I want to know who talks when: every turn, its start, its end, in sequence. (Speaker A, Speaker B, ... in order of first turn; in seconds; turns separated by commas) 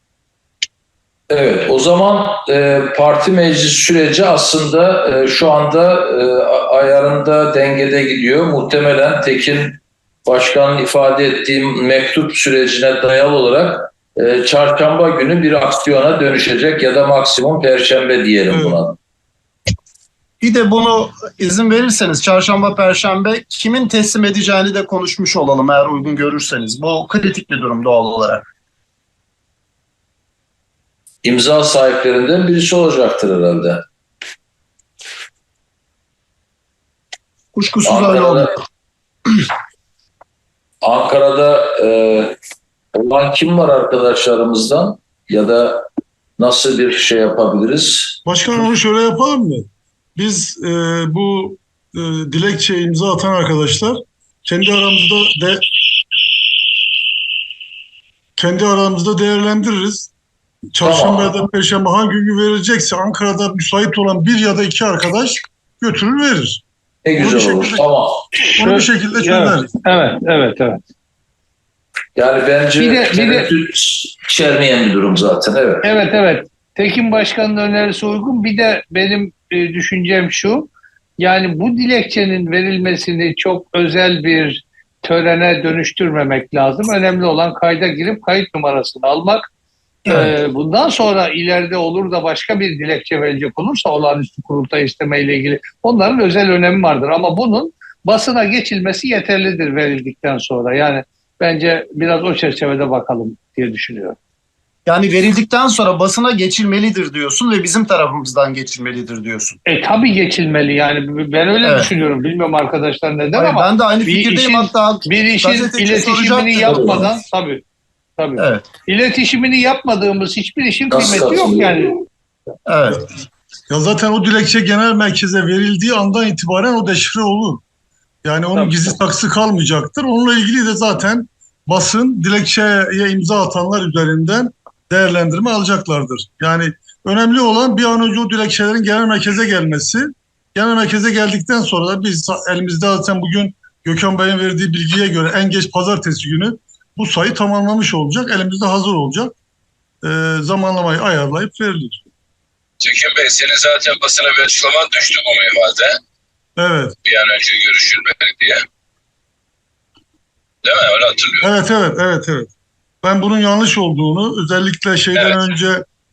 Speaker A: 1.3-19.0, Speaker B: 18.5-18.9, Speaker C: 20.4-28.4, Speaker A: 31.2-33.8, Speaker C: 37.5-38.5, Speaker A: 37.8-38.5, Speaker A: 40.8-42.4, Speaker A: 42.9-45.9, Speaker A: 46.4-48.2, Speaker B: 48.2-55.6, Speaker B: 58.4-60.1, Speaker B: 60.7-66.6, Speaker A: 60.8-61.3, Speaker A: 67.0-68.2, Speaker B: 67.2-67.8, Speaker D: 68.5-70.8, Speaker B: 68.6-69.7, Speaker A: 72.1-75.8, Speaker D: 72.8-73.5, Speaker D: 75.8-89.4, Speaker D: 90.1-104.2, Speaker C: 104.8-109.6, Speaker D: 109.7-117.6, Speaker C: 111.6-111.9, Speaker C: 113.3-117.0, Speaker A: 116.7-117.0, Speaker D: 118.2-122.1, Speaker C: 118.4-118.7, Speaker A: 120.9-121.8, Speaker C: 122.7-123.0, Speaker B: 123.7-127.6, Speaker B: 128.2-149.3, Speaker D: 128.5-128.9, Speaker B: 150.0-152.0, Speaker E: 152.8-155.9, Speaker B: 156.6-156.9, Speaker E: 157.0-158.6, Speaker E: 160.6-161.5, Speaker B: 161.4-162.5, Speaker B: 163.0-165.8